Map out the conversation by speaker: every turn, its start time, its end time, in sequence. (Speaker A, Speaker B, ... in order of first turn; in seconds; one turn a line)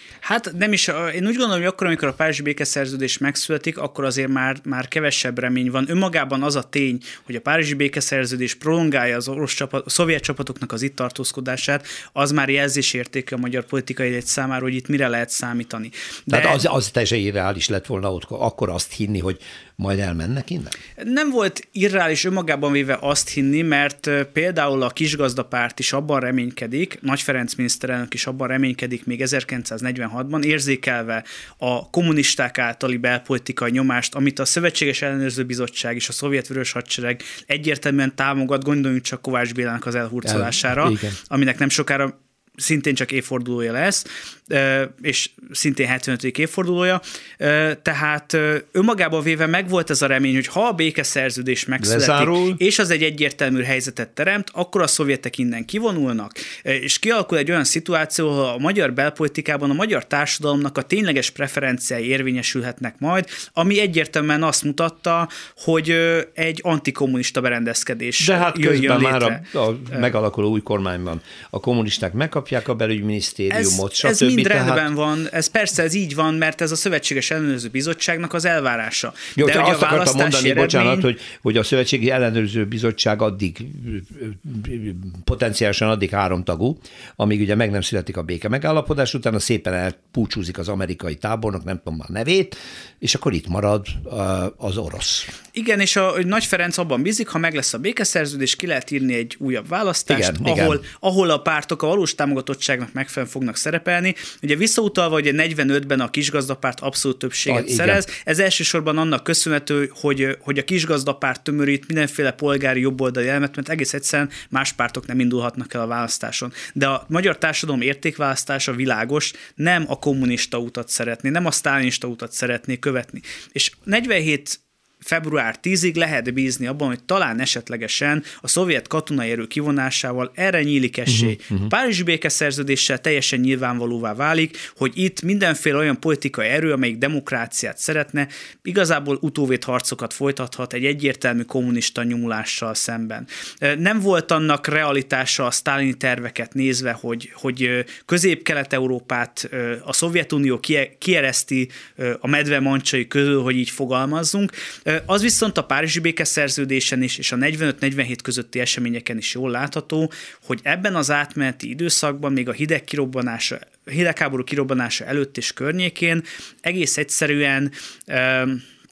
Speaker A: 0.2-16.6
Speaker B: 16.3-20.8
Speaker A: 21.0-70.1
Speaker B: 40.2-41.2
Speaker B: 51.8-52.6
Speaker B: 68.2-74.9
Speaker A: 73.5-81.1
Speaker B: 79.4-95.3
Speaker A: 95.5-168.7
Speaker B: 100.1-100.8
Speaker B: 107.5-108.0
Speaker B: 131.1-131.7